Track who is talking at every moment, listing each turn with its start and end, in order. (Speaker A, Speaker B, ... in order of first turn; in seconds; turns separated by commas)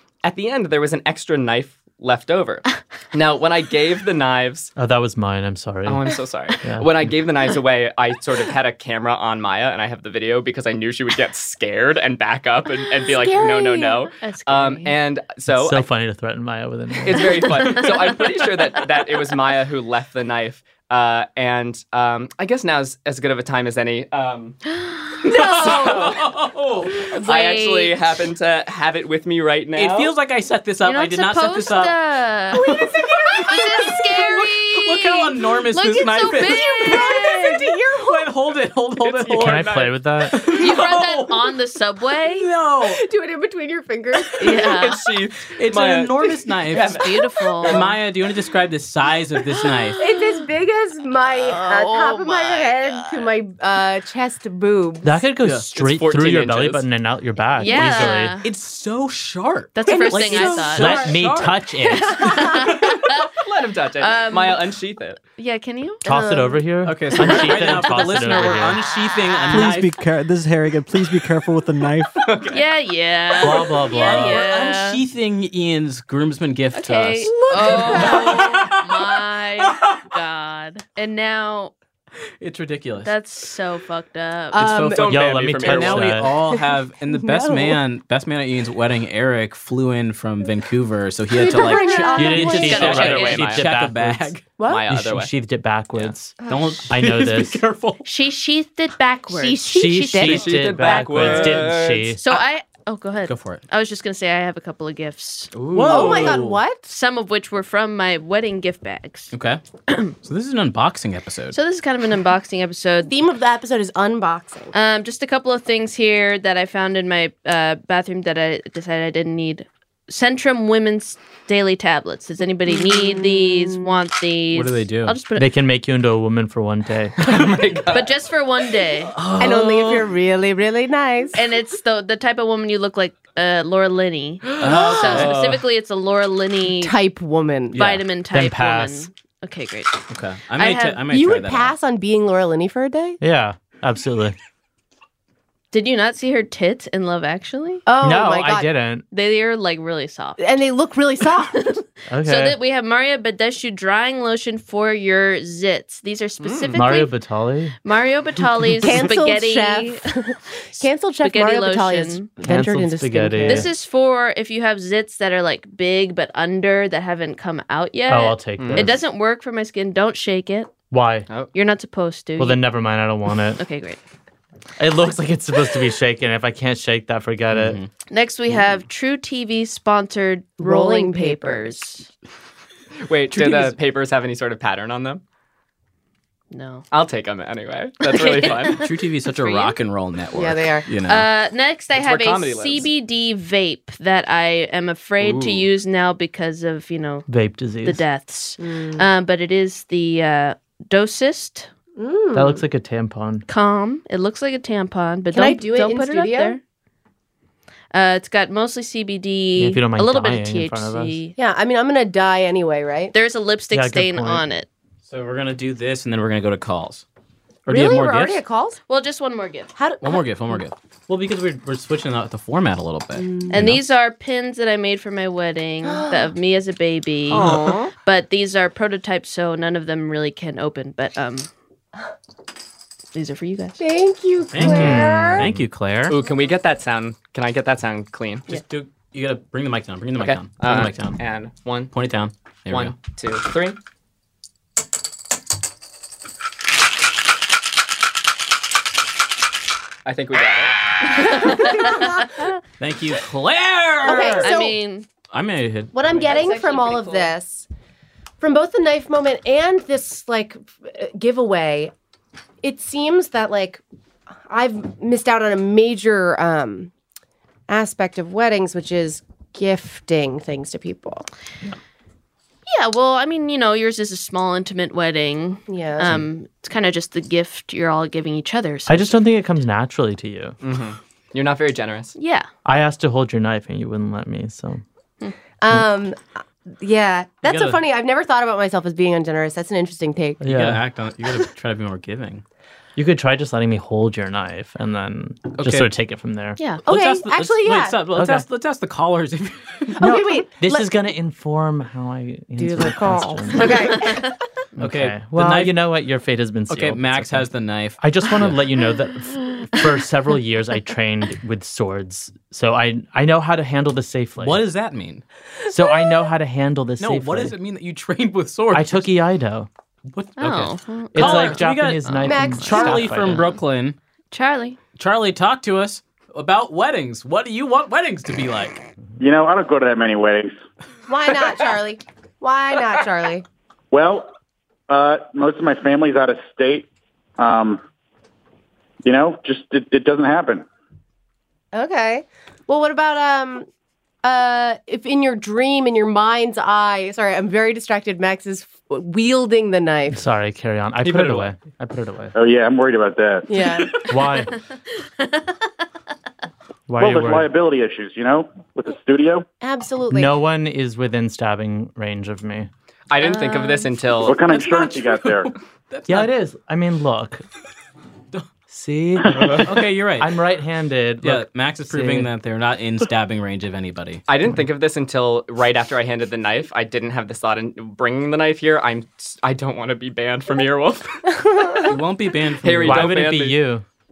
Speaker A: 0.2-4.7, Speaker B: 4.8-6.1, Speaker A: 5.8-15.9, Speaker B: 6.6-7.0, Speaker C: 13.1-14.1, Speaker D: 14.2-14.9, Speaker B: 15.5-17.7, Speaker A: 17.0-24.6, Speaker D: 17.7-17.9, Speaker D: 24.8-26.1, Speaker A: 25.2-26.2, Speaker E: 25.3-27.1, Speaker D: 27.0-28.0, Speaker A: 27.1-30.1, Speaker E: 29.7-32.0, Speaker D: 30.8-32.7, Speaker E: 32.6-41.5, Speaker C: 32.6-34.1, Speaker D: 33.4-37.2, Speaker C: 36.5-38.3, Speaker A: 39.0-39.9, Speaker B: 39.4-40.4, Speaker D: 40.5-42.5, Speaker E: 42.3-43.0, Speaker C: 42.8-44.8, Speaker D: 44.4-45.0, Speaker A: 44.7-48.0, Speaker E: 45.5-47.1, Speaker D: 46.9-47.9, Speaker E: 47.6-50.0, Speaker D: 49.5-50.4, Speaker C: 50.0-55.2, Speaker D: 51.3-53.3, Speaker B: 55.0-58.4, Speaker A: 55.7-56.8, Speaker D: 57.6-58.4, Speaker E: 57.8-61.6, Speaker D: 59.7-61.1, Speaker C: 59.9-61.1, Speaker B: 60.7-62.3, Speaker C: 62.0-62.7, Speaker D: 62.1-63.3, Speaker E: 62.5-62.7, Speaker A: 63.2-65.2, Speaker D: 64.0-64.6, Speaker D: 65.4-66.3, Speaker B: 66.0-68.8, Speaker C: 66.0-66.6, Speaker E: 66.8-70.0, Speaker D: 67.1-69.8, Speaker F: 69.5-72.3, Speaker A: 72.2-72.6, Speaker D: 72.5-75.0, Speaker B: 73.4-74.4, Speaker E: 73.4-80.0, Speaker D: 76.7-81.7, Speaker C: 77.2-78.6, Speaker E: 82.4-83.1, Speaker D: 83.0-84.7, Speaker C: 84.5-85.2, Speaker E: 84.5-94.5, Speaker A: 84.9-86.1, Speaker B: 85.0-86.3, Speaker C: 86.2-87.8, Speaker C: 91.3-93.0, Speaker D: 91.7-93.4, Speaker B: 92.2-94.3, Speaker A: 92.7-93.7, Speaker C: 94.6-94.8, Speaker A: 94.6-95.3, Speaker B: 94.9-96.4, Speaker C: 96.4-96.8, Speaker E: 96.4-98.0, Speaker B: 96.9-97.6, Speaker D: 98.0-99.6, Speaker C: 99.3-101.7, Speaker B: 99.7-102.2, Speaker A: 100.2-102.2, Speaker D: 102.2-105.5, Speaker E: 103.2-103.6, Speaker A: 105.5-106.4, Speaker E: 105.7-106.6, Speaker C: 105.8-106.9, Speaker D: 106.9-109.3, Speaker E: 109.3-109.6, Speaker D: 109.9-110.1, Speaker E: 110.2-111.6, Speaker D: 111.5-113.1, Speaker C: 113.1-114.7, Speaker D: 114.7-125.4, Speaker C: 122.7-124.0, Speaker E: 124.5-125.2, Speaker B: 125.3-127.5, Speaker A: 127.2-128.2, Speaker D: 127.9-129.1, Speaker E: 129.1-130.1, Speaker C: 129.4-131.4, Speaker D: 131.3-136.9, Speaker E: 134.6-135.6, Speaker C: 134.6-135.3, Speaker C: 136.7-137.8, Speaker E: 137.7-138.0, Speaker D: 137.7-141.0, Speaker B: 138.3-139.1, Speaker E: 140.1-141.8, Speaker C: 141.1-143.2, Speaker B: 143.2-144.3, Speaker D: 145.7-147.8, Speaker C: 147.8-148.7, Speaker B: 148.0-149.0, Speaker D: 149.1-150.4, Speaker C: 150.4-151.8, Speaker B: 152.1-152.6, Speaker D: 152.2-157.1, Speaker A: 156.4-156.8, Speaker B: 156.7-157.7, Speaker D: 157.8-160.1, Speaker C: 158.8-163.7, Speaker D: 160.8-162.3, Speaker B: 162.4-163.7, Speaker D: 163.4-170.7, Speaker B: 168.1-168.9, Speaker A: 168.6-168.9, Speaker B: 170.9-171.3, Speaker D: 171.5-172.6, Speaker B: 172.4-173.6, Speaker D: 173.6-174.0, Speaker B: 174.8-177.8, Speaker E: 177.5-177.9, Speaker D: 178.1-182.1, Speaker C: 180.6-181.8, Speaker A: 183.0-185.2, Speaker E: 183.3-183.8, Speaker D: 186.5-186.8, Speaker A: 186.9-188.9, Speaker D: 188.1-189.8, Speaker E: 188.7-191.3, Speaker C: 190.3-190.8, Speaker D: 191.0-197.2, Speaker A: 191.9-192.9, Speaker A: 195.2-195.7, Speaker B: 197.3-198.0, Speaker D: 197.8-201.7, Speaker C: 198.6-199.1, Speaker C: 202.0-202.6, Speaker B: 202.3-203.4, Speaker D: 203.5-206.6, Speaker C: 205.3-206.6, Speaker D: 207.9-211.3, Speaker B: 209.6-211.2, Speaker C: 211.4-213.1, Speaker D: 213.1-214.7, Speaker B: 213.7-214.4, Speaker E: 215.0-217.0, Speaker E: 217.7-218.4, Speaker C: 217.7-218.8, Speaker D: 218.9-219.7, Speaker C: 219.8-220.6, Speaker E: 220.0-223.8, Speaker C: 223.2-223.6, Speaker D: 223.5-231.5, Speaker C: 225.8-226.3, Speaker E: 227.3-227.9, Speaker C: 227.3-227.9, Speaker D: 233.1-233.8, Speaker C: 233.8-235.5, Speaker E: 234.5-236.2, Speaker B: 234.6-235.6, Speaker A: 236.1-238.5, Speaker E: 238.5-241.2, Speaker A: 240.2-241.9, Speaker E: 241.9-243.0, Speaker A: 242.7-243.8, Speaker A: 250.0-250.8, Speaker C: 251.1-252.6, Speaker D: 251.1-252.1, Speaker E: 252.8-254.5, Speaker C: 254.0-254.8, Speaker D: 254.4-255.1, Speaker E: 255.3-255.9, Speaker C: 255.9-257.7, Speaker A: 256.1-256.8, Speaker D: 256.2-257.3, Speaker C: 258.4-261.9, Speaker C: 262.6-263.8, Speaker C: 264.5-266.9, Speaker C: 267.7-271.3, Speaker D: 272.7-279.1, Speaker C: 275.7-276.2, Speaker B: 278.9-280.6, Speaker A: 280.6-282.1, Speaker D: 282.1-282.5, Speaker B: 282.6-284.8, Speaker C: 285.6-290.4, Speaker E: 287.4-287.8, Speaker B: 290.4-290.8, Speaker E: 290.4-292.4, Speaker B: 292.9-296.6, Speaker E: 295.5-295.9, Speaker C: 296.9-298.1, Speaker E: 296.9-300.0, Speaker B: 298.1-298.4, Speaker C: 300.0-301.0, Speaker B: 300.0-304.1, Speaker C: 302.6-304.4, Speaker B: 304.8-314.6, Speaker E: 304.8-305.8, Speaker E: 306.7-308.6, Speaker E: 314.4-315.2, Speaker B: 315.7-317.6, Speaker E: 317.0-319.1, Speaker B: 318.7-319.7, Speaker E: 320.1-323.9, Speaker D: 320.4-322.5, Speaker B: 321.1-323.4, Speaker C: 322.2-323.3, Speaker D: 324.3-324.8, Speaker E: 324.9-328.8, Speaker G: 329.2-330.6, Speaker C: 331.1-333.4, Speaker G: 333.9-334.3, Speaker G: 334.9-337.8, Speaker G: 339.0-340.6, Speaker C: 341.7-343.7, Speaker C: 344.2-350.2, Speaker B: 350.1-352.3, Speaker A: 351.0-351.4, Speaker G: 352.3-353.5, Speaker C: 353.5-353.9, Speaker B: 354.1-354.5, Speaker B: 356.9-357.5, Speaker G: 357.0-359.4, Speaker C: 359.6-360.3, Speaker B: 360.1-362.7, Speaker A: 363.1-364.4, Speaker D: 363.2-364.3, Speaker G: 364.2-365.5, Speaker E: 364.4-366.3, Speaker B: 366.1-367.4, Speaker B: 368.7-372.3, Speaker E: 369.6-370.3, Speaker E: 371.2-374.2, Speaker A: 374.3-381.7, Speaker C: 381.4-382.0, Speaker E: 381.9-383.3, Speaker A: 382.6-383.6, Speaker B: 382.8-383.8